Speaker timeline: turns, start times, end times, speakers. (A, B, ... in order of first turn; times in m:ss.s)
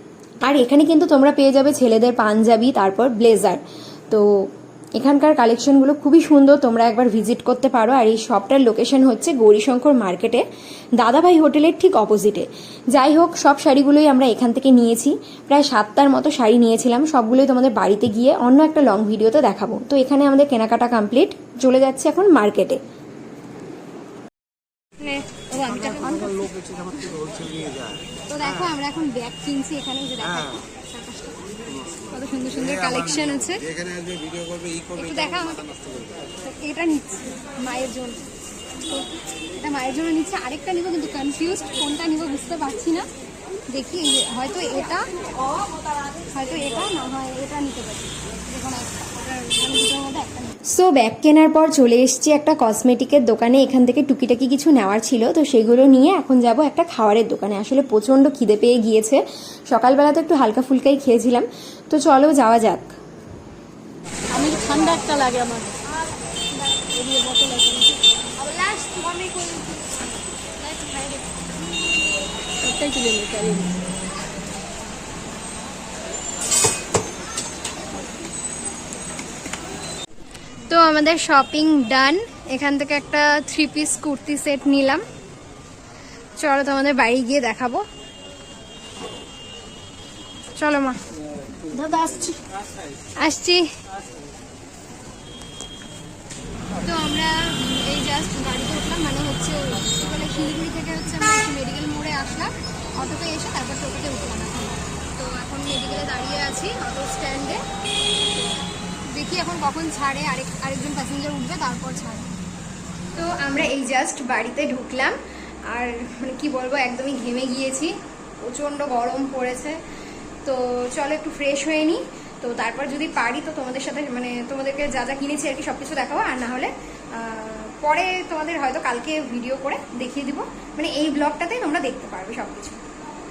0:00.4-0:10.4 A
0:11.0-0:22.8 A
0:25.0-0:26.6 A
0:26.5-0:28.0 B
0:28.3-0:33.7 A
0:33.9-0:34.9 B
0:34.9-0:35.7 A
0:36.4-0:38.2 A
0:38.9-0:43.1 A
0:43.7-0:45.2 A
0:46.2-1:02.9 A
1:04.3-1:05.9 C
1:06.8-1:08.0 C
1:08.4-1:09.7 A
1:12.6-1:13.8 C
1:20.7-1:25.1 A
1:26.4-1:27.9 A
1:30.6-1:31.0 A
1:31.6-1:32.4 C
1:33.2-1:33.8 A
1:36.8-1:47.6 A
1:49.1-1:52.3 A
1:53.1-1:55.2 A
1:55.7-1:59.8 A
2:00.4-2:12.8 A